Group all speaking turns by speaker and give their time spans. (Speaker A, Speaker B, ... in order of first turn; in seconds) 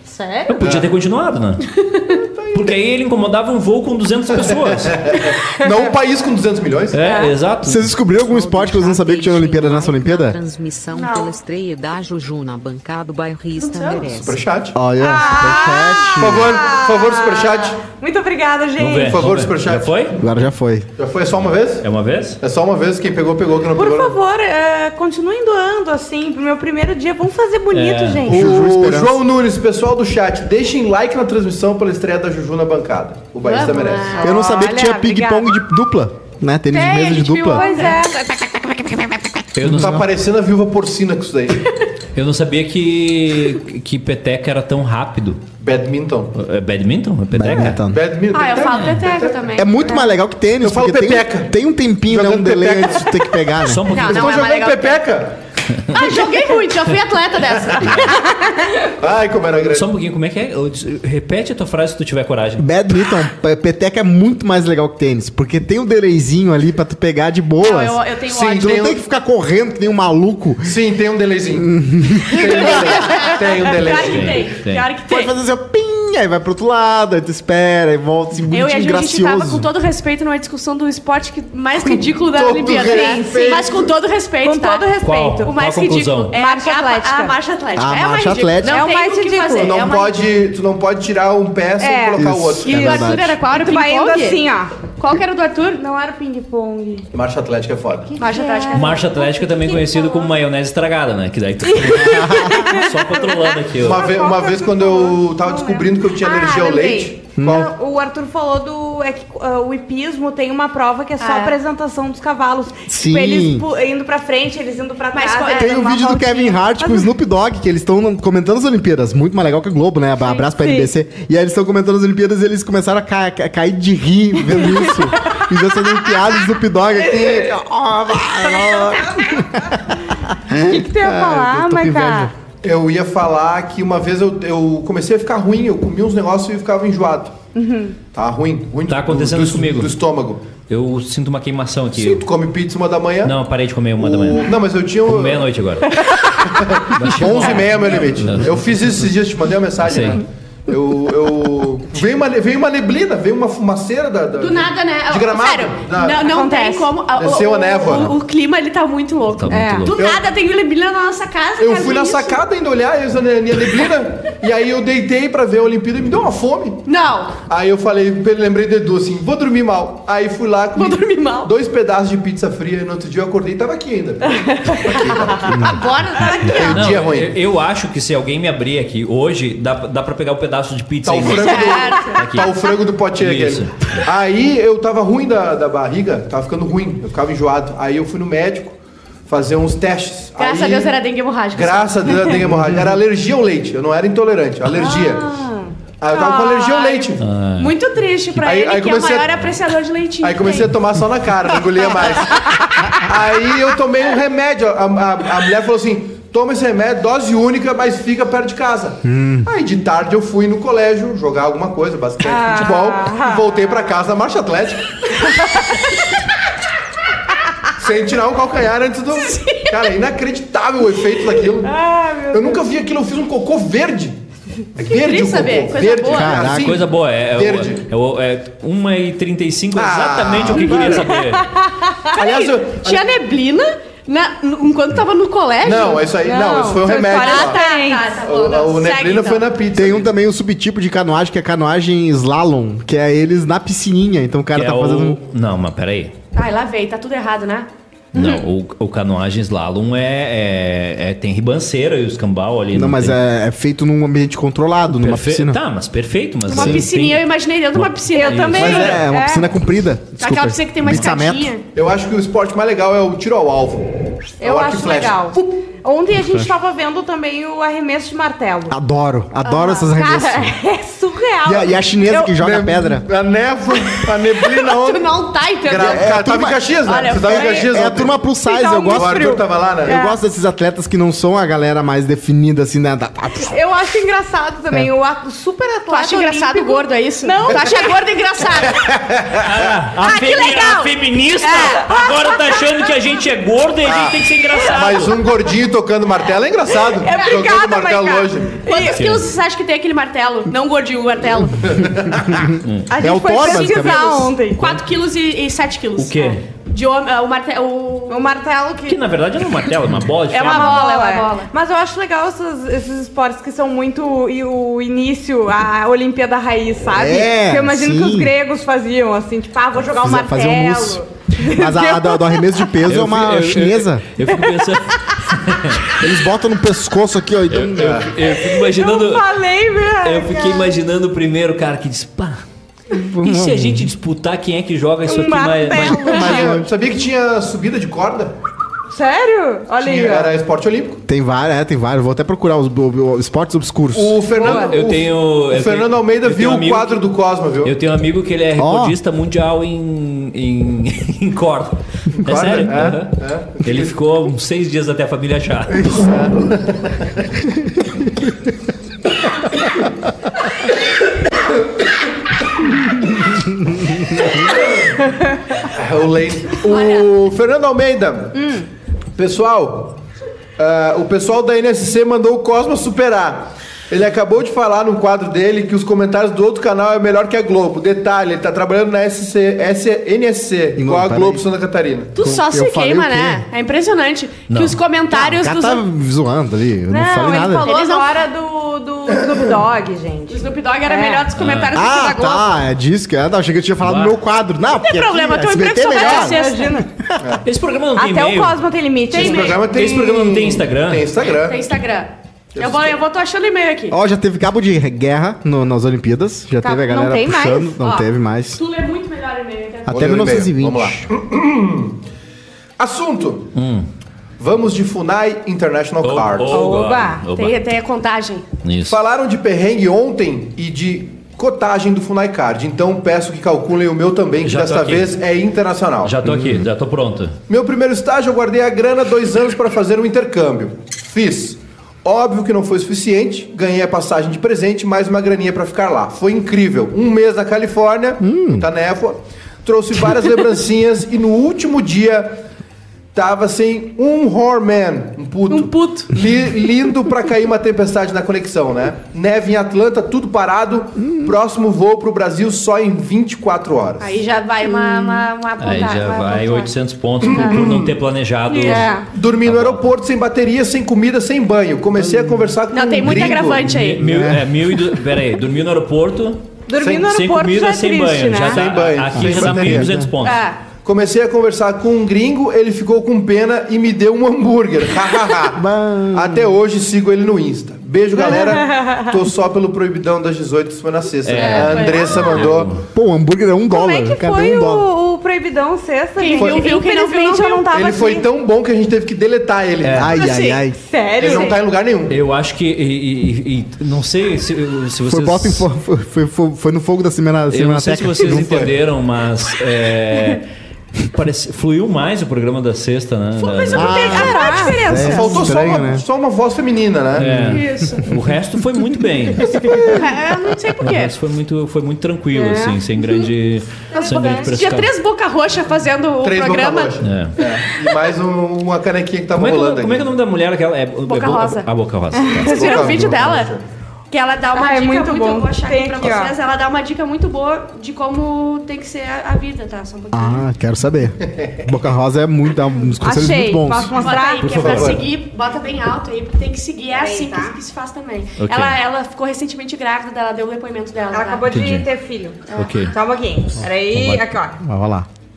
Speaker A: 0.2-0.5, 7.1-7.3, 15.0-19.2, 23.8-28.6, 34.1-35.5, 37.5-39.0, 82.6-83.7, 84.4-85.5, 86.3-87.3, 88.6-89.8, 91.8-92.3, 93.4-94.7, 95.8-97.0, 98.1-100.3, 101.7-116.0, 116.8-117.1, 120.3-120.9, 124.4-126.1, 128.5-129.5, 130.6-132.3, 137.5-137.9, 156.2-156.9, 159.5-159.9, 176.2-176.6, 194.7-195.7, 212.2-213.4, 215.2-215.7, 221.6-222.6, 230.8-232.1, 236.2-238.1, 258.1-259.5, 264.4-268.7, 269.5-272.3, 278.4-280.2, 283.4-288.0, 296.8-299.0, 302.9-304.8, 308.1-309.0, 310.3-322.7, 328.3-330.7, 335.1-336.5, 338.9-340.4, 344.4-344.7, 368.4-368.6, 386.9-391.3, 395.9-396.9, 397.9-399.6, 406.6-407.8, 416.5-417.2, 454.6-455.2, 458.6-459.1, 466.7-468.6, 478.2-479.1, 483.7-488.2, 490.8-491.6, 504.1-505.2, 512.3-513.2, 513.9-514.6, 522.1-522.7, 524.5-526.3, 533.0-534.6, 536.9-537.5, 541.1-544.6
Speaker B: 0.5-1.8, 2.5-5.1, 6.9-7.9, 18.8-20.2, 21.8-22.4, 27.7-28.3, 39.5-40.1, 42.1-45.4, 46.4-47.8, 53.6-54.5, 55.7-56.0, 59.7-62.7, 73.9-74.9, 85.0-86.3, 98.7-104.1, 138.9-139.9, 140.7-142.2, 143.2-146.0, 146.9-148.7, 149.8-150.2, 159.4-160.0, 176.6-182.6, 183.2-184.0, 197.2-197.7, 226.5-231.5, 244.5-246.1, 248.1-253.2, 254.9-259.0, 289.4-295.2, 298.9-299.3, 302.6-302.9, 306.0-306.4, 308.9-310.8, 322.9-325.9, 327.5-329.3, 330.0-332.4, 333.2-336.2, 344.4-347.0, 347.6-356.1, 384.5-384.8, 391.4-391.7, 393.8-394.2, 397.4-398.6, 399.5-401.1, 413.5-413.9, 416.0-417.6, 418.6-419.0, 424.4-425.1, 426.0-427.4, 455.6-459.9, 463.1-470.5, 481.2-482.8, 489.8-490.1, 492.1-495.6, 497.5-500.4, 501.0-504.3, 507.1-509.6, 510.8-514.9, 517.0-517.4, 519.3-523.1, 534.4-535.0, 538.4-538.8, 541.5-541.9, 542.5-542.9, 543.9-544.2
Speaker C: 0.6-0.9, 2.0-2.8, 4.3-7.2, 14.1-14.8, 16.2-17.8, 19.1-20.0, 21.0-21.9, 22.4-24.2, 28.3-34.2, 39.6-41.7, 45.6-46.3, 47.9-49.4, 50.6-53.3, 53.9-55.4, 57.6-58.0, 59.0-59.9, 68.3-69.0, 70.6-74.5, 82.2-83.9, 89.6-93.2, 97.1-98.2, 103.8-107.7, 132.6-137.4, 138.1-140.4, 141.9-143.3, 144.0-145.5, 146.2-156.2, 157.1-158.1, 161.6-166.8, 167.4-175.9, 176.4-177.3, 181.0-188.8, 189.3-190.9, 191.5-195.2, 196.0-197.2, 198.3-199.3, 200.2-215.2, 217.8-221.8, 222.3-224.2, 224.7-227.8, 229.7-231.2, 232.1-233.1, 235.6-237.6, 238.2-240.1, 261.7-265.2, 272.3-275.1, 275.6-278.2, 278.9-279.9, 288.6-289.6, 293.8-298.6, 301.6-302.5, 327.8-328.1, 336.1-338.4, 339.8-341.0, 343.9-347.7, 352.1-353.9, 355.9-357.3, 364.2-365.0, 365.6-368.6, 369.1-370.0, 370.6-382.1, 397.2-397.4, 399.1-401.7, 402.5-403.0, 409.9-412.0, 412.8-413.5, 414.4-416.8, 418.9-426.1, 427.5-442.4, 443.1-454.2, 457.2-457.9, 459.1-463.9, 466.8-467.1, 468.4-469.9, 470.8-482.7, 487.7-490.1, 491.2-492.2, 498.2-498.8, 505.0-507.6, 509.5-510.1, 516.2-520.1, 522.4-523.6, 531.3-531.7, 534.5-535.0
Speaker D: 7.6-10.4, 14.7-16.6, 20.2-20.9, 28.2-29.2, 34.2-37.7, 47.3-48.0, 49.5-53.8, 62.6-70.8, 71.5-73.1, 75.1-79.7, 87.8-88.8, 92.2-93.4, 102.0-102.6, 107.4-107.7, 112.9-113.7, 115.5-132.3, 175.5-175.8, 209.0-209.5, 226.1-226.8, 239.7-245.2, 252.7-255.6, 256.5-256.9, 258.6-261.5, 266.2-266.5, 268.7-270.6, 271.4-273.1, 275.9-283.6, 302.1-304.3, 316.9-318.3, 319.9-324.0, 325.9-328.1, 332.9-333.9, 336.0-336.7, 341.1-344.2, 348.6-349.0, 363.4-364.4, 380.8-381.4, 382.2-383.4, 385.1-387.7, 391.7-397.2, 403.9-408.6, 409.9-411.1, 426.2-426.7, 438.2-438.7, 451.0-451.3, 462.0-462.5, 464.0-464.8, 469.1-470.1, 475.5-476.6, 482.9-484.9, 489.9-490.8, 495.1-498.4, 503.7-506.0, 507.2-508.2, 530.1-534.0, 544.0-545.1
Speaker E: 8.1-14.4
Speaker F: 10.9-11.3, 13.6-14.1, 33.4-34.5, 36.7-38.0, 48.3-49.8, 53.9-55.0, 55.9-58.5, 67.6-68.9, 73.0-75.3, 78.5-84.9, 85.4-90.3, 92.6-94.4, 95.0-95.8, 98.2-99.0, 111.2-111.5, 115.1-116.6, 154.4-162.4, 166.8-167.4, 170.7-171.5, 175.4-176.8, 181.2-182.7, 190.4-192.4, 196.1-200.7, 219.1-219.9, 224.8-226.5, 232.1-236.1, 236.9-239.4, 246.3-247.7, 256.5-259.0, 260.2-261.6, 269.5-269.9, 274.4-276.2, 276.8-277.7, 285.9-288.9, 290.0-292.0, 298.6-301.8, 303.7-304.0, 304.5-308.3, 310.3-311.5, 366.6-367.1, 382.1-385.8, 387.6-388.2, 390.3-392.5, 394.7-396.8, 399.1-399.6, 401.4-404.0, 407.8-409.9, 417.3-418.4, 445.5-446.1, 454.0-456.7, 458.5-458.9, 462.7-464.0, 470.2-470.6, 481.4-482.5, 486.2-487.7, 490.1-490.6, 491.2-491.5, 503.4-505.5, 507.5-508.1, 509.8-511.1, 514.2-516.9, 521.1-521.7, 522.4-523.5, 524.1-530.5, 534.0-541.5, 542.5-542.8